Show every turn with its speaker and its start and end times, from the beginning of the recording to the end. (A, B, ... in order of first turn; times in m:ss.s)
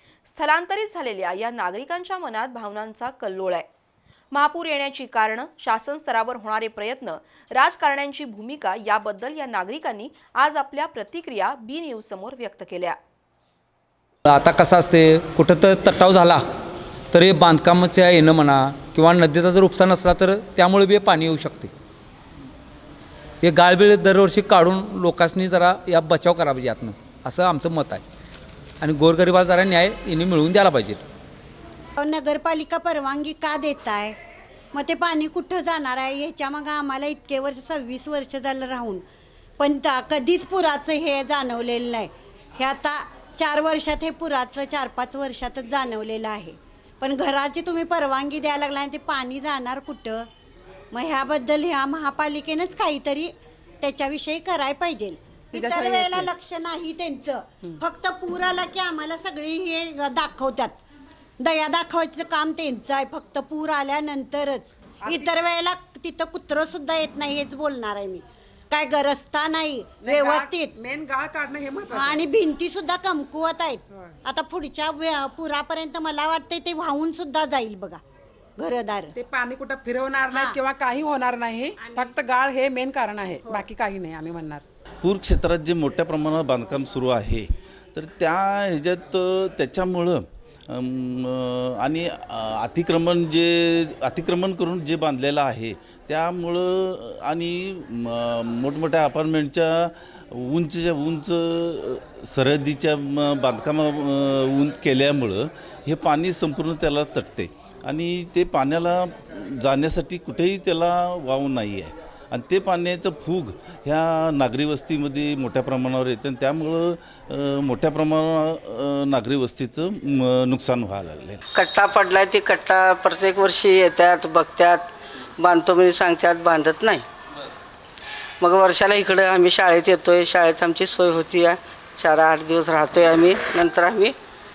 0:00.3-0:03.7 A
0:04.3-0:13.0 A
0:14.3-0:16.4 B
0:17.1-0:21.7 B
0:23.4-0:28.0 B
0:28.8-0:31.0 B
0:32.0-0:34.2 C
0:34.7-0:39.0 C
0:39.6-0:50.3 C
0:50.9-1:00.8 C
0:55.5-0:56.3 D
1:01.4-1:10.7 C
1:05.0-1:05.3 D
1:10.0-1:12.2 D
1:11.9-1:18.0 C
1:18.6-1:19.2 C
1:19.2-1:24.6 D
1:20.3-1:20.6 C
1:25.0-2:01.4 E
2:01.5-2:07.1 F
2:08.4-2:14.2 F